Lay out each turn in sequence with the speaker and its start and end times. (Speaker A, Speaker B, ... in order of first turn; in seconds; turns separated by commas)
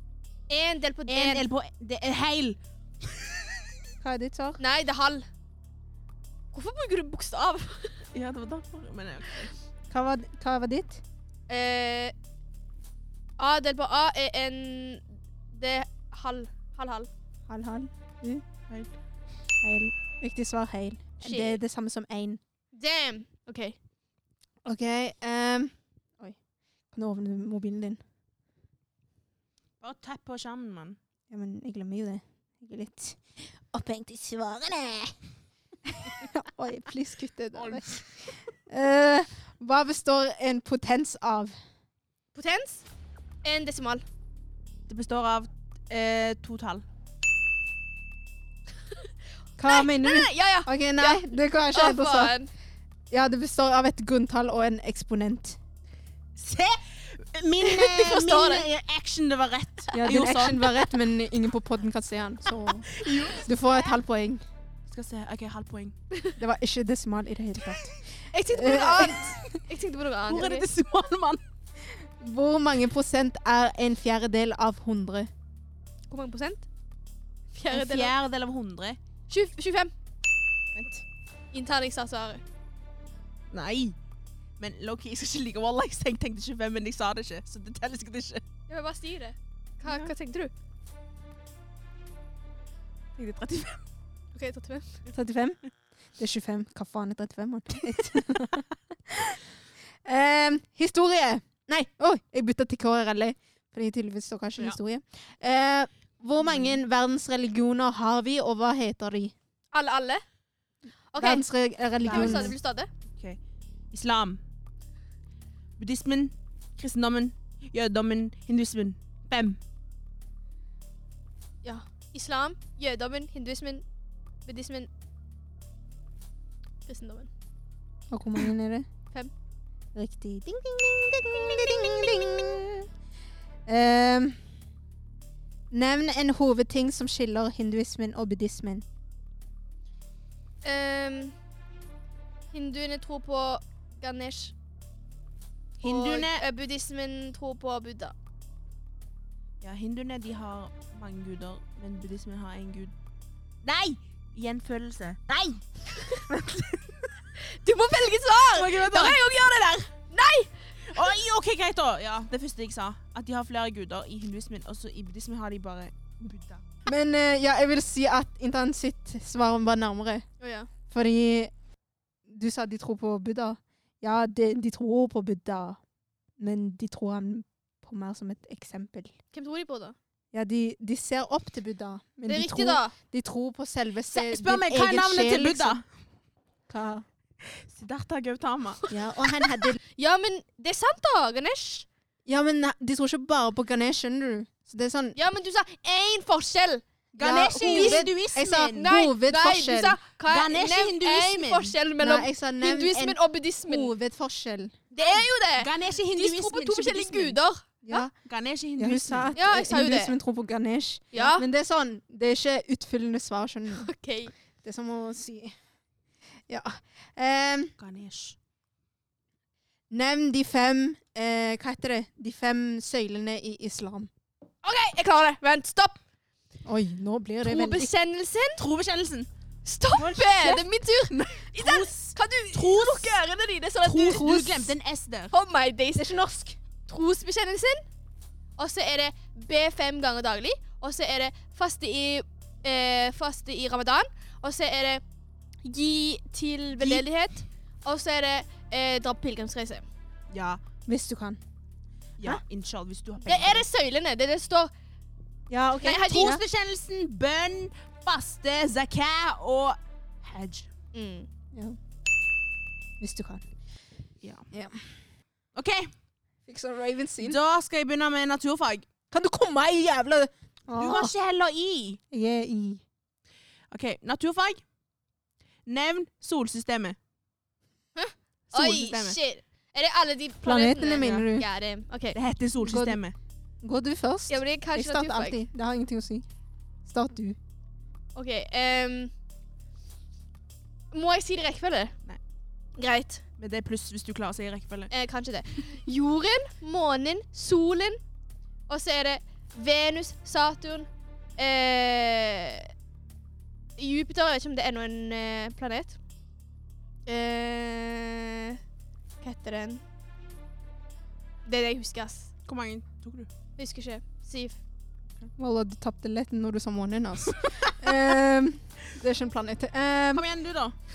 Speaker A: 0.5-1.4, Speaker B: 1.1-3.6, Speaker C: 4.0-4.6, Speaker A: 4.6-5.3, Speaker A: 6.5-8.0, Speaker B: 8.1-9.5, Speaker C: 9.9-11.0, Speaker A: 11.5-12.1, Speaker A: 13.4-17.1, Speaker C: 17.5-18.4, Speaker B: 18.7-18.9, Speaker C: 19.6-22.4, Speaker A: 21.2-21.6, Speaker A: 22.7-23.8, Speaker C: 24.6-28.0, Speaker B: 29.8-31.0, Speaker C: 31.3-35.2, Speaker C: 35.9-41.5, Speaker B: 37.5-38.0, Speaker A: 42.3-42.9, Speaker A: 43.4-44.0, Speaker B: 44.9-46.8, Speaker C: 49.6-52.4, Speaker A: 49.6-52.5, Speaker C: 53.1-55.6, Speaker B: 56.4-60.9, Speaker A: 57.6-58.6, Speaker C: 59.9-64.4, Speaker B: 62.9-63.5, Speaker B: 64.9-66.0, Speaker C: 66.4-69.5, Speaker A: 68.3-70.7, Speaker B: 69.1-69.5, Speaker B: 70.3-71.4, Speaker C: 71.8-75.3, Speaker A: 76.1-76.7, Speaker A: 77.5-78.1, Speaker B: 77.7-79.0, Speaker A: 79.3-79.9, Speaker B: 80.7-81.0, Speaker A: 81.5-82.4, Speaker B: 83.5-83.9, Speaker B: 84.6-88.4, Speaker A: 88.7-90.5, Speaker B: 89.8-90.1, Speaker B: 93.2-93.8, Speaker A: 94.3-95.0, Speaker C: 95.1-99.4, Speaker C: 100.0-109.3, Speaker B: 106.4-106.8, Speaker A: 109.7-110.2, Speaker A: 111.1-111.5, Speaker C: 111.2-112.5, Speaker A: 112.0-112.9, Speaker B: 112.0-112.5, Speaker B: 113.9-114.4, Speaker B: 115.8-119.6, Speaker A: 121.6-123.8, Speaker A: 124.4-124.9, Speaker A: 126.8-127.3, Speaker C: 128.1-128.9, Speaker C: 129.9-132.9, Speaker C: 133.7-134.4, Speaker C: 135.7-138.8, Speaker A: 140.6-141.3, Speaker A: 142.5-144.5, Speaker B: 145.8-146.4, Speaker A: 145.8-148.1, Speaker B: 149.6-152.9, Speaker B: 153.6-157.1, Speaker A: 155.9-156.2, Speaker A: 157.4-160.7, Speaker B: 158.4-159.6, Speaker B: 160.8-166.6, Speaker C: 166.8-170.3, Speaker A: 170.4-170.7, Speaker C: 170.9-171.5, Speaker C: 172.3-175.8, Speaker C: 176.4-179.2, Speaker A: 179.3-180.0, Speaker C: 180.3-185.8, Speaker A: 182.3-182.9, Speaker B: 184.1-185.8, Speaker C: 186.7-187.1, Speaker B: 187.5-189.0, Speaker C: 188.9-189.8, Speaker A: 189.9-191.9, Speaker C: 192.3-195.2, Speaker A: 195.2-196.8, Speaker B: 197.2-198.9, Speaker C: 197.2-200.0, Speaker A: 197.6-203.9, Speaker B: 200.3-201.7, Speaker C: 202.0-204.8, Speaker A: 204.9-208.1, Speaker B: 205.0-207.4, Speaker C: 207.8-208.1, Speaker B: 208.2-209.3, Speaker C: 208.8-213.9, Speaker A: 209.3-210.1, Speaker A: 211.1-211.4, Speaker A: 213.8-214.3, Speaker C: 214.6-215.6, Speaker C: 216.5-217.7, Speaker B: 217.8-218.4, Speaker C: 219.9-224.1, Speaker A: 224.6-226.0, Speaker C: 226.6-227.9, Speaker A: 227.4-228.6, Speaker B: 228.6-229.3, Speaker A: 229.6-234.3, Speaker B: 229.9-233.2, Speaker B: 233.8-235.3, Speaker C: 234.2-234.7, Speaker A: 235.3-236.1, Speaker C: 235.9-236.6, Speaker A: 236.8-237.9, Speaker A: 238.6-245.0, Speaker A: 245.6-249.8, Speaker B: 250.3-250.6, Speaker C: 250.9-251.4, Speaker B: 252.2-253.7, Speaker A: 253.2-254.7, Speaker C: 255.5-256.4, Speaker A: 255.8-256.3, Speaker B: 255.8-260.7, Speaker A: 260.9-261.3, Speaker C: 261.5-261.8, Speaker C: 263.0-263.5, Speaker B: 264.2-264.5, Speaker C: 264.5-264.9, Speaker B: 265.6-265.9, Speaker C: 266.4-267.4, Speaker B: 267.2-268.9, Speaker C: 269.1-271.1, Speaker B: 270.8-272.0, Speaker C: 272.1-272.8, Speaker B: 273.7-274.7, Speaker B: 275.6-277.0, Speaker A: 277.9-282.2, Speaker B: 278.5-279.2, Speaker C: 280.4-281.4, Speaker B: 281.0-281.3, Speaker B: 282.1-283.1, Speaker C: 282.6-283.0, Speaker C: 283.6-286.3, Speaker A: 284.3-285.4, Speaker C: 286.8-287.4, Speaker A: 288.1-289.1, Speaker A: 290.9-292.0, Speaker A: 292.7-293.2, Speaker B: 293.4-294.9, Speaker A: 294.9-298.0, Speaker A: 298.7-302.7, Speaker A: 303.8-306.0, Speaker A: 307.1-308.6, Speaker A: 309.2-309.8, Speaker A: 311.4-312.3, Speaker B: 312.4-313.3, Speaker A: 313.6-314.6, Speaker C: 315.4-320.2, Speaker B: 320.1-320.8